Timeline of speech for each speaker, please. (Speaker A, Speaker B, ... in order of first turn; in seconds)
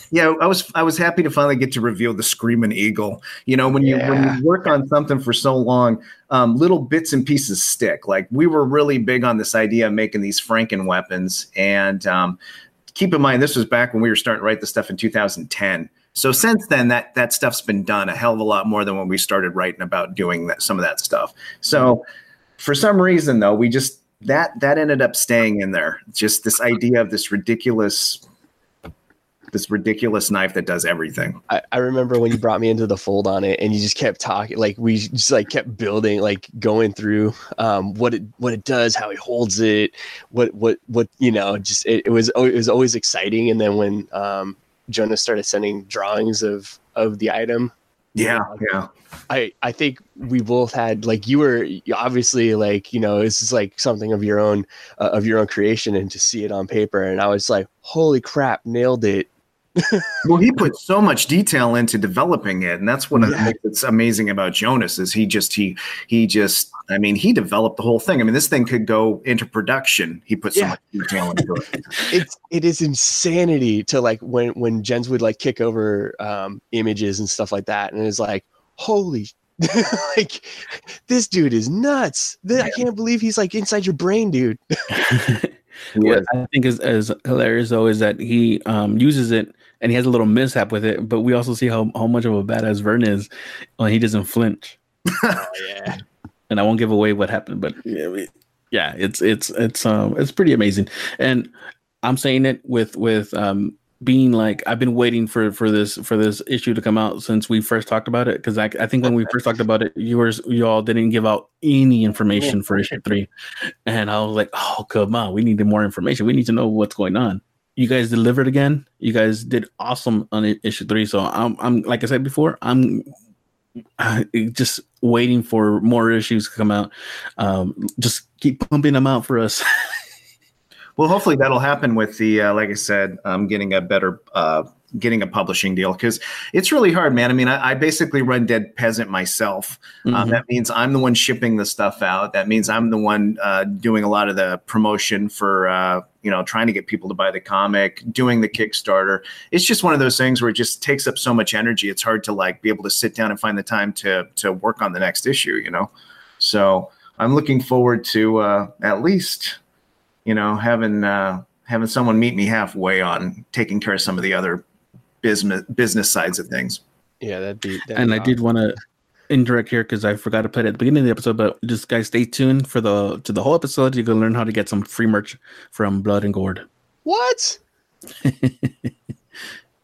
Speaker A: 0.1-12.4, 12.9-22.0, 22.6-28.2, 29.5-31.4, 48.1-48.9, 60.2-71.7, 85.9-86.3, 95.1-95.3, 131.0-159.6, 160.2-164.6, 165.2-166.8
Speaker B: 3.8-4.4, 31.5-47.7, 48.2-48.7, 49.3-60.1, 63.2-63.5, 72.1-84.6, 95.3-96.0, 167.2-168.4, 177.1-177.6
Speaker C: 84.9-94.8, 96.5-101.5, 102.0-113.3, 113.8-123.1, 124.0-129.6, 140.1-140.4, 167.9-168.8, 169.3-176.7, 178.2-178.9